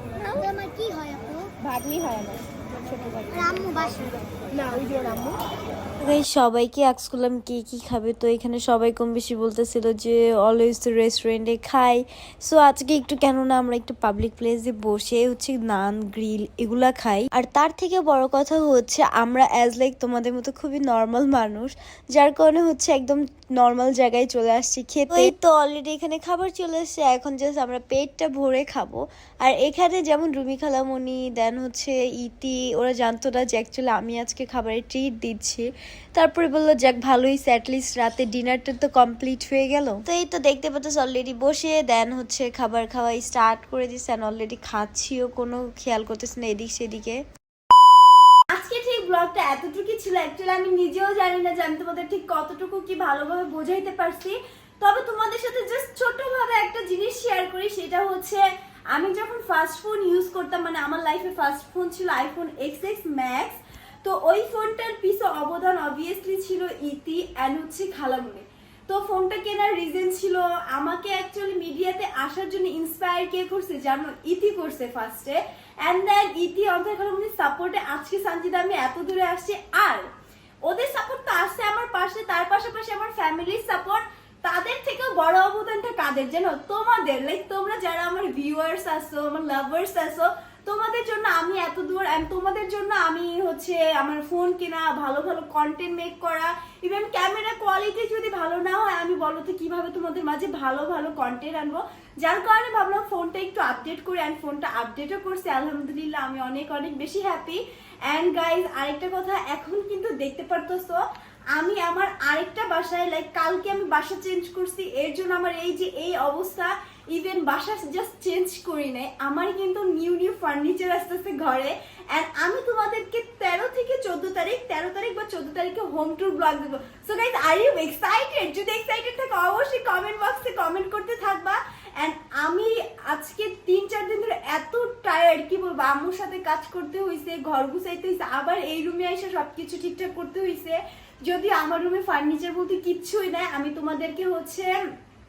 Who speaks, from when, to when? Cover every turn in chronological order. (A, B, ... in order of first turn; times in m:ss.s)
0:00.2-0:00.5 A
0:00.4-0:01.5 B
0:01.6-0:03.7 A
0:03.4-0:04.2 B
0:04.5-0:05.4 A
0:06.0-0:47.2 C
0:48.5-1:20.1 D
1:20.6-1:51.0 D
1:51.6-2:24.8 D